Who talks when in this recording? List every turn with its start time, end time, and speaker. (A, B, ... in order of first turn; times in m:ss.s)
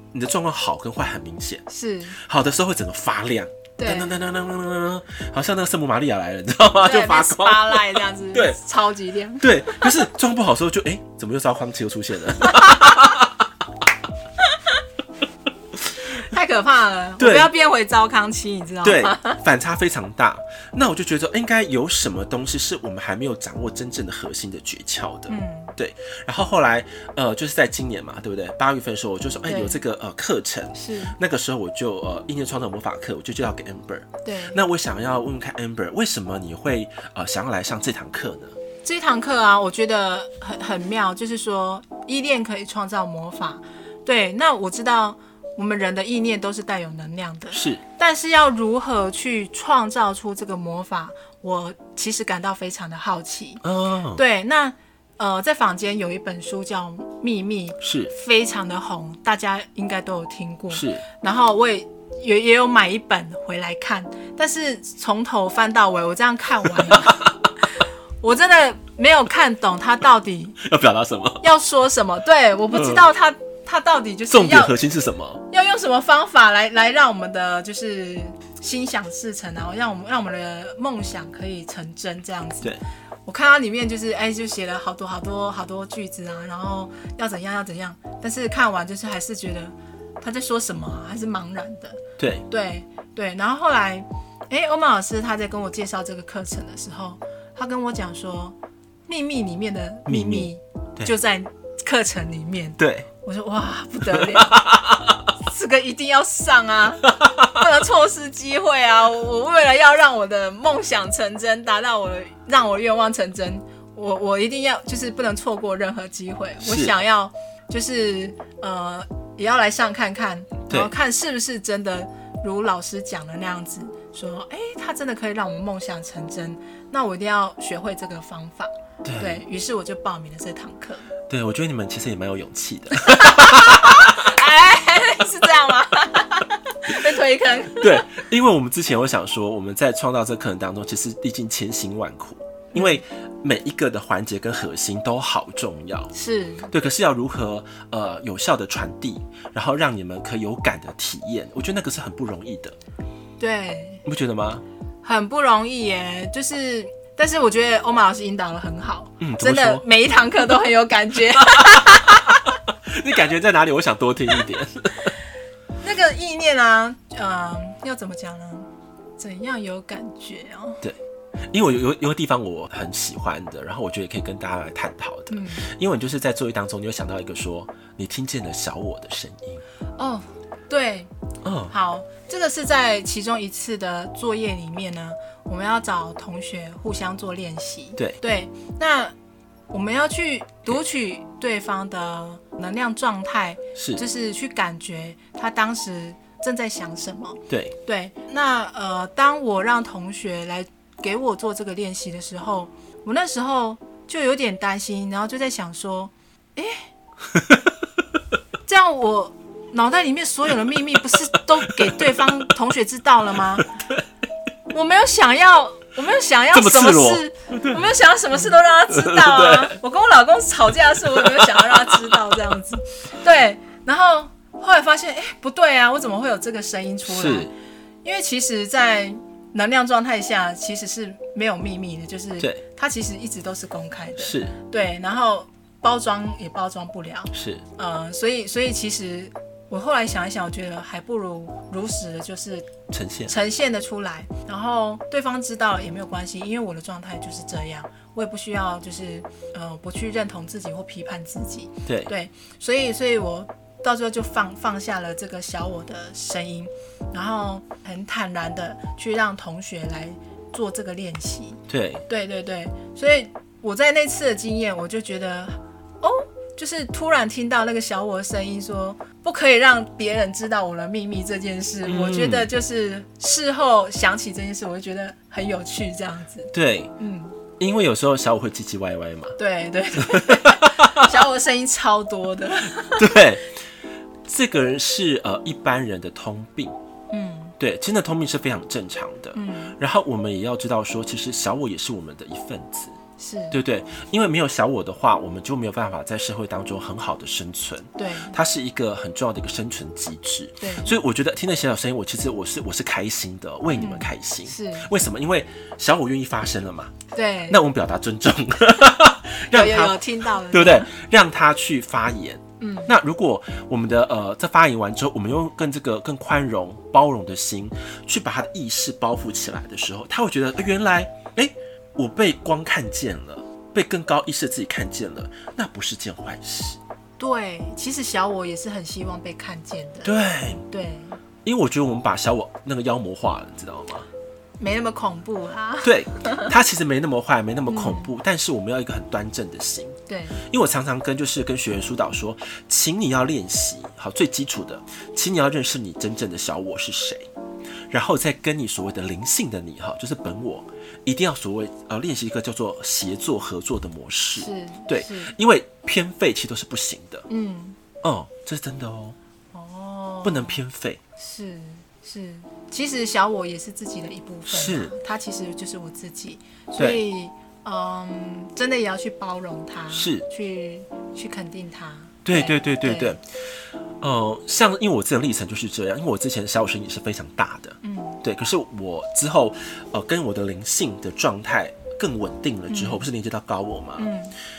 0:00.1-0:08.6 A
0:01.7-0:02.2 B
0:03.8-0:04.1 B
0:06.8-0:10.1 B
0:09.4-0:13.4 A
0:12.4-0:13.2 B
0:16.1-0:19.4 B
0:17.2-0:17.5 A
0:18.8-0:38.6 A
0:25.3-0:25.7 B
0:29.5-0:29.8 B
0:30.8-0:31.2 B
0:34.2-0:34.6 B
0:38.8-0:53.6 B
0:47.5-0:47.8 A
0:53.6-0:54.2 A
0:54.2-1:10.6 B
0:57.8-0:58.1 A
1:00.7-1:01.0 A
1:06.8-1:07.3 A
1:10.6-1:11.4 A
1:11.4-1:14.8 B
1:12.7-1:13.0 A
1:14.3-1:15.4 A
1:15.5-1:38.6 B
1:32.2-1:32.4 A
1:39.1-1:44.8 B
1:40.1-1:41.1 A
1:42.8-1:43.1 A
1:44.1-1:45.3 A
1:45.4-2:11.1 B
1:47.2-1:47.6 A
1:56.6-1:57.0 A
2:09.0-2:09.4 A
2:11.3-2:14.3 A
2:13.0-2:18.1 B
2:17.8-2:26.1 A
2:22.7-2:23.0 B
2:26.1-2:26.7 B
2:26.7-2:32.8 A
2:33.4-2:34.0 B
2:34.0-2:34.6 A
2:35.0-2:42.4 B
2:39.2-2:39.8 A
2:41.5-2:45.1 A
2:45.8-2:50.8 B
2:51.5-2:59.6 A
2:55.3-2:55.7 B
3:00.0-3:01.1 B
3:01.4-3:01.7 A
3:01.7-3:09.1 B
3:09.7-3:26.9 B
3:13.8-3:14.0 A
3:17.5-3:17.7 A
3:27.3-3:27.7 A
3:28.7-3:33.7 B
3:31.6-3:32.4 A
3:33.6-3:34.0 A
3:34.7-3:47.5 B
3:36.5-3:37.9 A
3:38.9-3:39.8 A
3:41.2-3:42.0 A
3:47.1-3:47.5 A
3:48.0-4:02.7 B
3:54.2-3:54.6 A
3:57.3-3:57.6 A
4:02.9-4:03.3 A
4:03.3-4:37.4 B
4:11.9-4:12.1 A
4:21.7-4:22.0 A
4:31.8-4:32.5 A
4:36.5-4:36.9 A
4:37.6-4:39.4 A
4:39.4-4:43.1 B
4:40.0-4:41.1 A
4:42.9-4:43.5 A
4:44.2-4:46.8 A
4:47.1-4:47.6 B
4:47.6-4:53.0 A
4:49.3-4:49.8 B
4:53.2-4:53.6 B
4:53.5-5:07.0 A
4:58.0-4:58.4 B
5:00.6-5:01.0 B
5:03.7-5:04.9 B
5:07.1-5:07.6 B
5:07.5-5:26.8 A
5:09.5-5:10.9 B
5:12.6-5:12.9 B
5:27.2-5:30.1 B
5:30.0-5:30.7 A
5:30.7-5:31.2 B
5:31.4-5:34.1 A
5:34.6-5:36.5 B
5:35.8-5:40.0 A
5:37.7-5:38.1 B
5:40.1-5:40.4 B
5:40.5-5:47.3 A
5:47.9-5:57.3 A
5:54.4-5:55.4 B
5:57.3-5:57.8 B
5:58.0-5:59.2 A
5:59.5-6:00.6 B
6:00.2-6:01.0 A
6:01.2-6:13.2 B
6:04.5-6:04.9 A
6:06.8-6:07.0 A
6:09.9-6:10.2 A
6:12.2-6:13.2 A
6:14.0-6:24.1 A
6:17.8-6:18.2 B
6:22.7-6:23.1 B
6:24.0-6:24.4 B